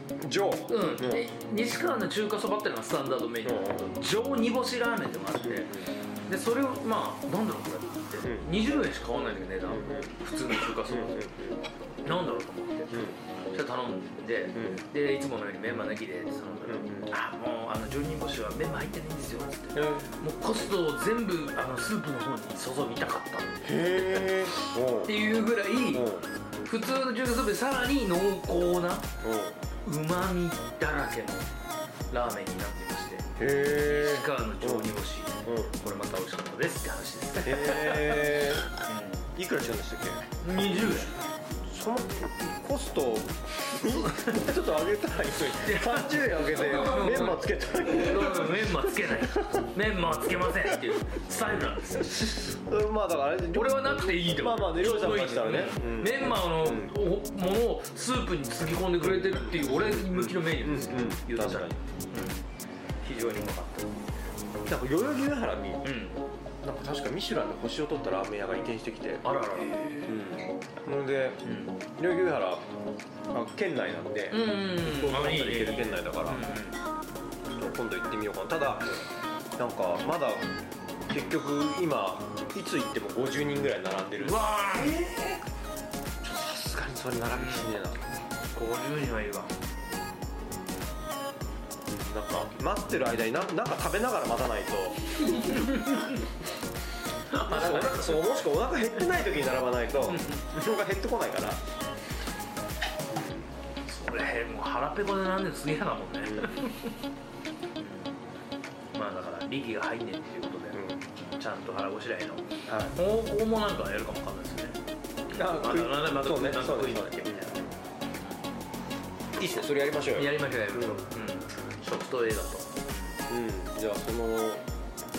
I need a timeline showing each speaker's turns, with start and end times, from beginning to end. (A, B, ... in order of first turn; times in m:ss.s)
0:00.2-0:01.3 A
0:00.7-0:11.2 B
0:03.4-0:03.9 A
0:05.4-0:05.9 A
0:08.2-0:08.5 A
0:09.7-0:10.1 A
0:10.8-0:11.6 A
0:12.0-0:24.4 B
0:12.9-0:13.2 A
0:14.5-0:14.8 A
0:16.6-0:17.1 A
0:19.7-0:20.1 A
0:23.6-0:25.1 A
0:25.0-0:26.1 B
0:25.9-0:26.2 A
0:26.6-0:29.1 B
0:29.2-0:29.6 A
0:29.8-0:31.5 B
0:32.1-0:39.3 B
0:33.4-0:34.9 A
0:35.4-0:35.8 A
0:37.4-0:38.7 A
0:39.3-0:40.2 A
0:40.4-0:41.1 B
0:41.7-0:49.6 A
0:43.8-0:44.4 B
0:45.5-0:52.6 B
0:52.5-0:56.9 A
0:53.5-1:02.5 B
0:59.0-1:01.8 A
1:03.0-1:04.2 B
1:04.6-1:05.9 A
1:05.8-1:06.2 B
1:06.6-1:09.2 A
1:09.2-1:10.0 B
1:10.0-1:12.6 A
1:11.4-1:11.8 B
1:13.3-1:16.4 A
1:14.3-1:16.8 B
1:17.5-1:19.0 A
1:19.6-1:20.4 A
1:21.1-1:25.4 A
1:24.2-1:25.0 B
1:26.2-1:28.0 A
1:27.3-1:27.7 B
1:28.5-1:29.5 B
1:31.9-1:35.6 A
1:35.3-1:36.2 B
1:37.3-1:38.4 B
1:37.4-1:41.6 A
1:40.1-1:40.4 B
1:43.1-1:43.5 A
1:43.8-1:46.9 B
1:47.8-1:48.1 B
1:48.9-1:54.8 B
1:50.7-1:51.0 A
1:52.7-1:52.9 A
1:55.3-1:57.7 B
1:55.3-1:57.7 A
1:59.4-2:01.1 A
1:59.4-2:03.2 B
2:03.3-2:04.6 A